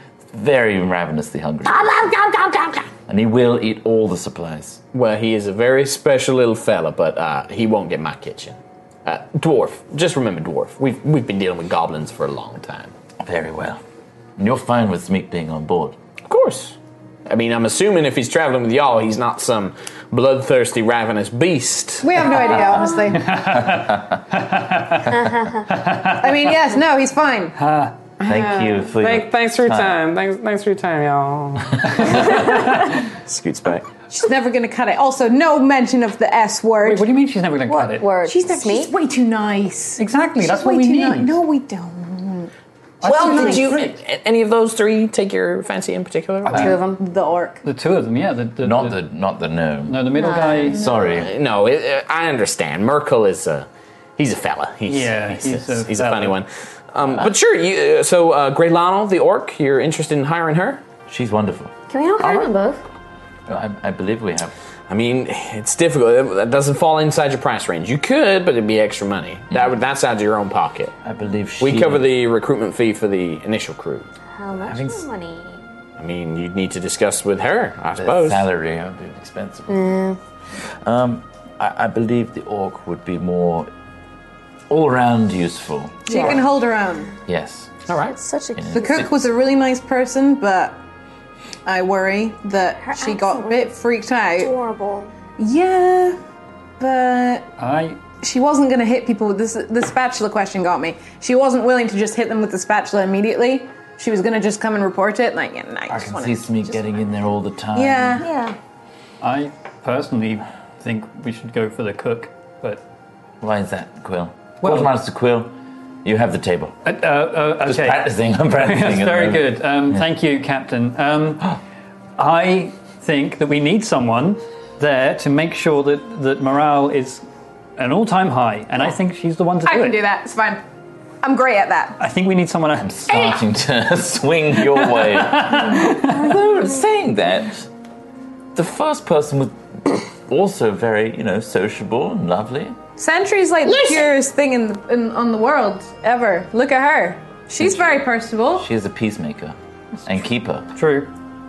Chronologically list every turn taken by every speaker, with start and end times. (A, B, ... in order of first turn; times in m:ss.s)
0:00.3-0:01.9 A
0:01.7-0:02.8 B
0:03.1-0:04.8 A
0:04.9-0:12.9 B
0:13.2-0:13.8 A
0:14.4-0:16.0 A
0:16.3-0:16.8 B
0:17.3-0:22.3 B
0:22.0-0:23.5 C
0:23.1-0:26.2 D
0:25.1-0:25.7 E
0:26.0-0:27.6 C
0:27.6-0:28.0 D
0:28.2-0:30.1 A
0:31.9-0:32.9 D
0:32.1-0:33.9 B
0:34.1-0:37.1 C
0:36.8-0:38.1 D
0:37.7-0:38.9 E
0:38.2-0:42.5 C
0:40.0-0:41.4 D
0:43.0-0:43.9 D
0:43.0-0:46.8 B
0:43.1-0:43.7 C
0:46.5-0:47.0 E
0:47.0-0:47.6 C
0:47.6-0:49.0 D
0:48.6-0:51.3 A
0:49.9-0:50.8 D
0:50.2-0:50.9 E
0:51.1-1:00.8 B
0:54.9-0:56.4 D
1:01.1-1:02.5 A
1:01.9-1:02.8 E
1:03.5-1:04.5 A
1:04.9-1:10.9 B
1:11.0-1:12.1 A
1:11.6-1:14.1 B
1:14.4-1:15.6 E
1:14.6-1:15.0 A
1:16.0-1:18.5 B
1:18.0-1:20.0 A
1:19.7-1:20.2 E
1:20.8-1:23.7 A
1:24.7-1:26.4 A
1:26.1-1:27.1 C
1:26.1-1:26.5 E
1:27.3-1:27.8 A
1:27.9-1:28.2 B
1:28.1-1:29.1 E
1:28.6-1:29.1 A
1:28.7-1:30.8 C
1:31.7-1:34.6 C
1:32.8-1:33.7 E
1:34.4-1:35.1 E
1:35.4-1:36.2 C
1:36.8-1:37.5 C
1:37.6-1:38.0 D
1:38.2-1:46.5 C
1:45.9-1:48.2 A
1:47.8-1:48.3 C
1:48.2-1:48.6 E
1:49.2-1:52.8 D
1:53.4-1:55.5 A
1:54.6-1:54.9 D
1:56.0-1:56.8 A
1:56.8-2:01.6 D
1:57.6-2:00.1 A
2:02.2-2:07.2 D
2:07.8-2:10.0 D
2:09.6-2:10.6 C
2:11.2-2:12.0 C
2:12.0-2:13.0 D
2:12.8-2:17.7 A
2:14.8-2:16.3 D
2:18.6-2:22.8 A
2:23.0-2:28.7 C
2:23.7-2:24.1 E
2:27.6-2:30.7 A
2:30.7-2:31.1 D